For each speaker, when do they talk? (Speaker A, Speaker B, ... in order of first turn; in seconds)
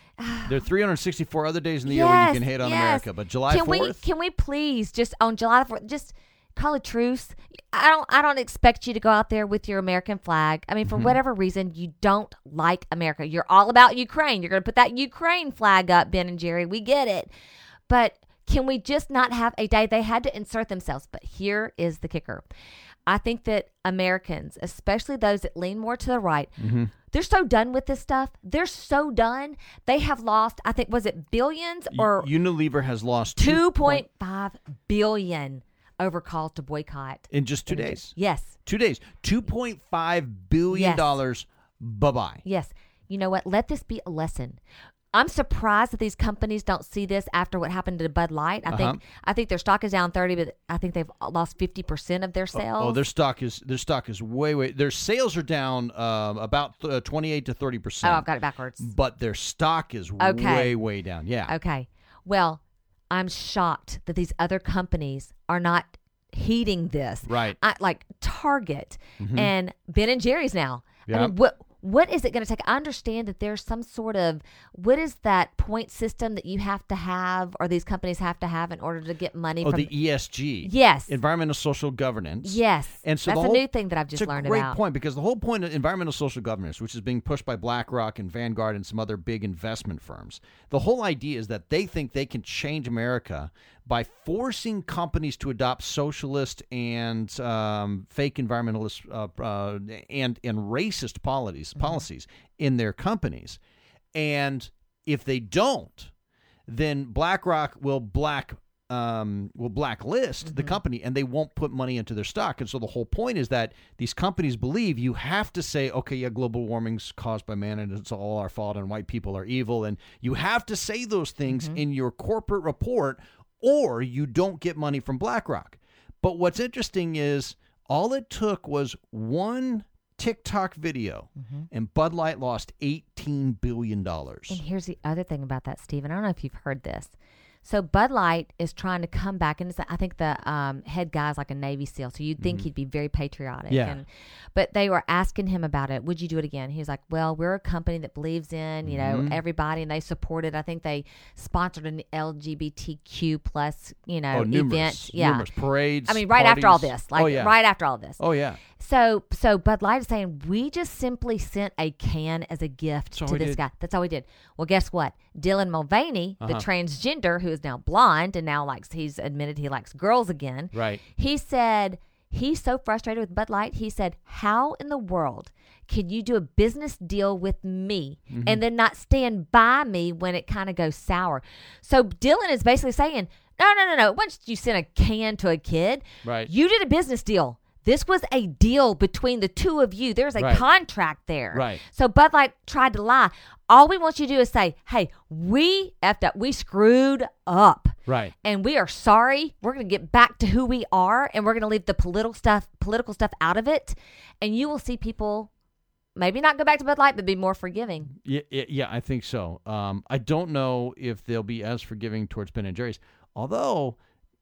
Speaker A: 0.2-0.6, 1.8-17.3, 17.9-22.4, 23.1-26.5, 27.1-32.3, 33.4-38.5, 40.7-41.2, 42.4-44.6, 45.1-53.0, 58.0-58.9, 60.2-60.8, 61.5-81.2, 82.4-84.8, 101.8-102.0, 110.5-110.8, 121.5-121.8, 131.4-131.7, 134.5-137.1, 137.6-155.5, 156.1-158.2, 158.8-205.5, 206.2-208.1
Speaker B: 0.5-4.0, 10.9-11.2, 26.6-26.9, 31.9-34.0, 37.3-42.4, 48.7-49.0, 52.5-58.3, 58.8-61.5, 67.2-67.6, 69.2-69.5, 71.1-71.3, 79.6-103.6, 104.1-106.1, 106.7-134.6, 142.4-142.7, 143.7-144.0, 148.8-149.4, 154.3-158.6, 163.1-163.6, 170.7-171.0, 178.3-178.6, 186.2-186.5, 190.4-190.6, 191.5-191.8, 198.1-198.3, 208.2-214.0